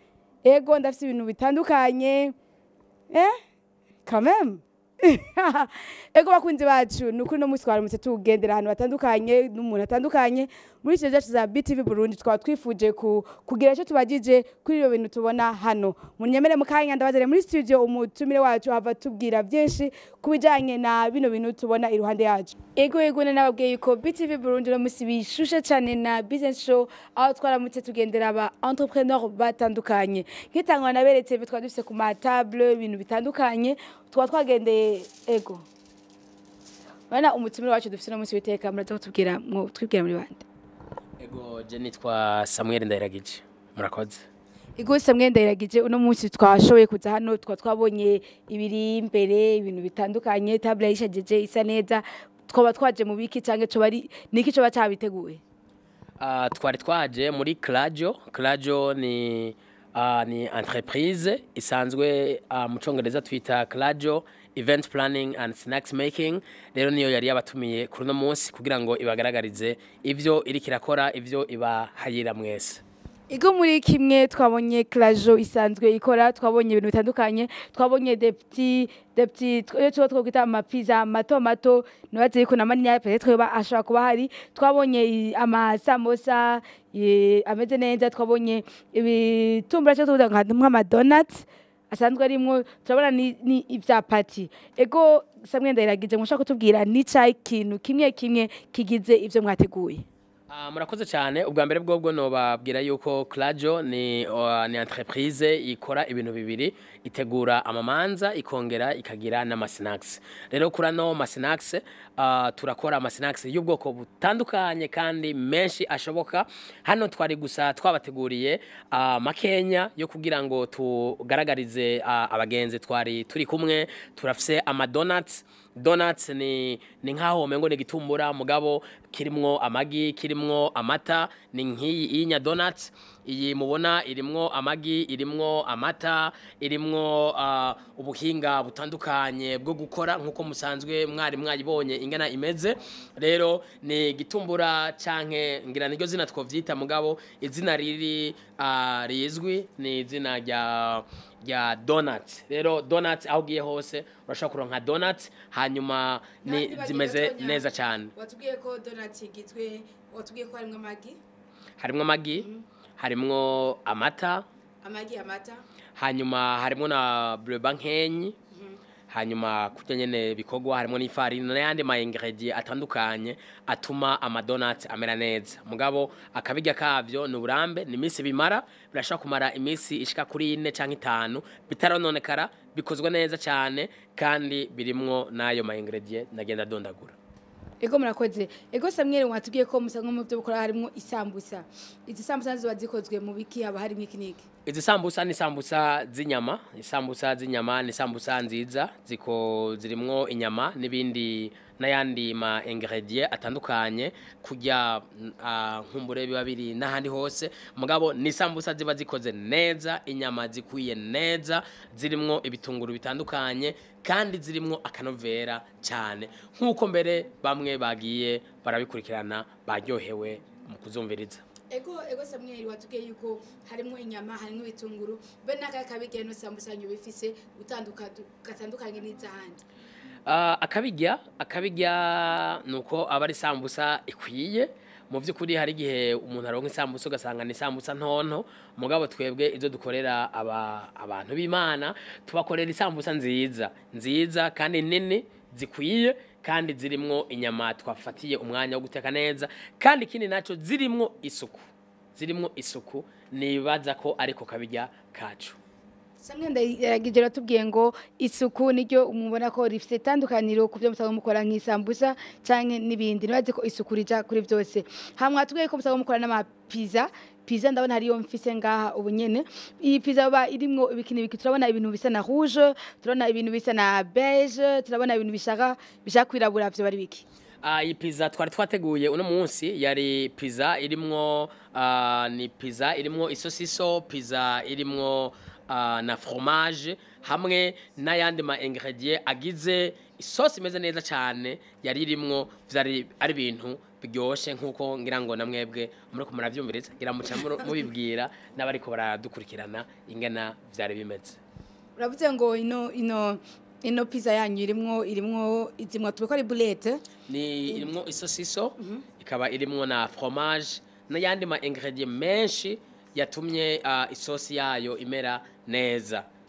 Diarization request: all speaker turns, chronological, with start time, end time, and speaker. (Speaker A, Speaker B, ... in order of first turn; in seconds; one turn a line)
Speaker A: 0.4-2.3
Speaker A: 3.1-3.4
Speaker A: 4.0-35.6
Speaker A: 37.1-40.5
Speaker B: 41.2-44.2
Speaker A: 44.8-55.4
Speaker B: 56.2-72.8
Speaker A: 73.3-100.0
Speaker B: 100.5-158.1
Speaker A: 156.4-161.2
Speaker B: 161.8-162.5
Speaker B: 163.0-164.4
Speaker A: 164.8-165.6
Speaker B: 165.9-168.3
Speaker B: 169.1-187.2
Speaker A: 187.8-194.4
Speaker B: 194.7-221.4
Speaker A: 221.7-229.6
Speaker B: 230.2-255.6
Speaker A: 256.2-277.2
Speaker B: 277.6-301.4
Speaker A: 302.0-307.0
Speaker B: 307.3-316.2
Speaker A: 308.8-309.0